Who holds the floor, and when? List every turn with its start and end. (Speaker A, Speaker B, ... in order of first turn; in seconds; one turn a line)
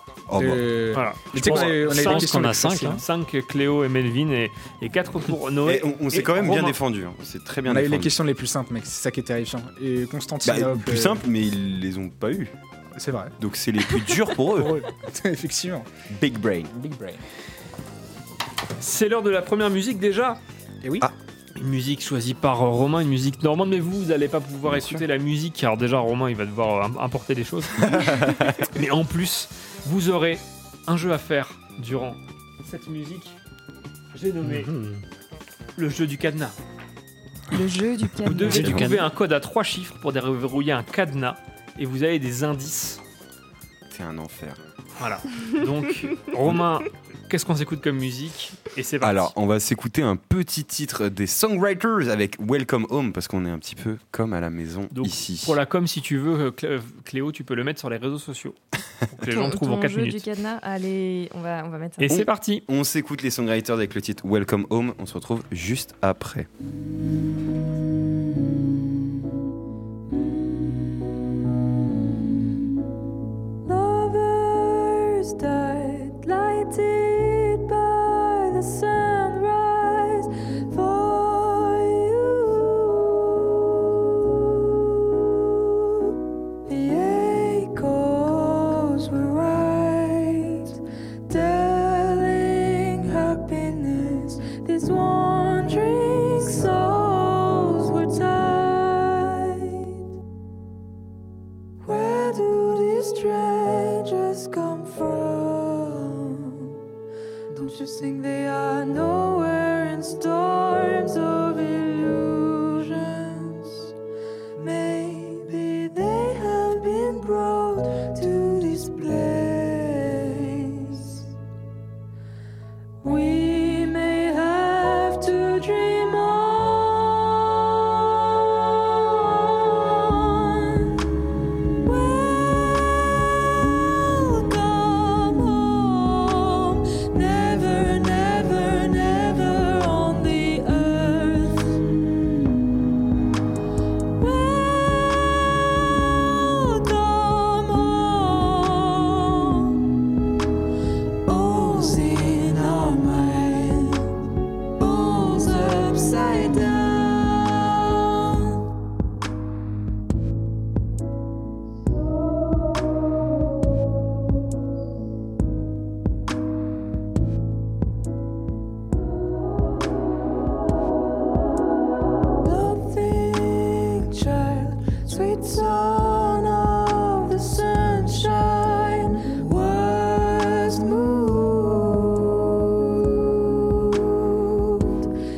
Speaker A: 0.3-0.6
Speaker B: 0.3-3.0
Speaker C: 0.9-6.8
Speaker D: 1.4-3.0
Speaker A: 5.6-8.1
Speaker B: 7.7-11.2
Speaker A: 10.4-12.5
Speaker B: 12.9-13.3
Speaker A: 13.4-14.8
Speaker B: 14.4-15.9
Speaker A: 16.1-16.7
Speaker B: 16.7-17.2
Speaker C: 18.8-20.4
Speaker B: 20.8-21.1
Speaker C: 21.5-33.4
Speaker A: 24.6-25.0
Speaker A: 27.8-28.6
Speaker C: 34.1-34.7
Speaker D: 34.4-35.0
Speaker C: 35.8-36.5
Speaker E: 37.5-38.9
Speaker C: 38.2-43.0
Speaker D: 38.4-39.0
Speaker A: 38.5-39.0
Speaker A: 43.9-44.6
Speaker C: 45.0-49.3
Speaker A: 49.0-55.6
Speaker C: 54.9-58.6
Speaker C: 59.1-60.2
Speaker E: 59.2-62.1
Speaker C: 62.0-62.6
Speaker A: 62.1-66.5
Speaker F: 73.7-83.7
Speaker F: 84.2-84.8
Speaker F: 85.7-86.1
Speaker F: 86.6-99.9
Speaker F: 101.8-106.8
Speaker F: 107.5-113.9
Speaker F: 114.6-121.2
Speaker F: 123.0-131.0
Speaker F: 131.8-141.8
Speaker F: 144.2-149.9
Speaker F: 151.2-154.2
Speaker F: 154.8-158.6
Speaker F: 172.4-185.0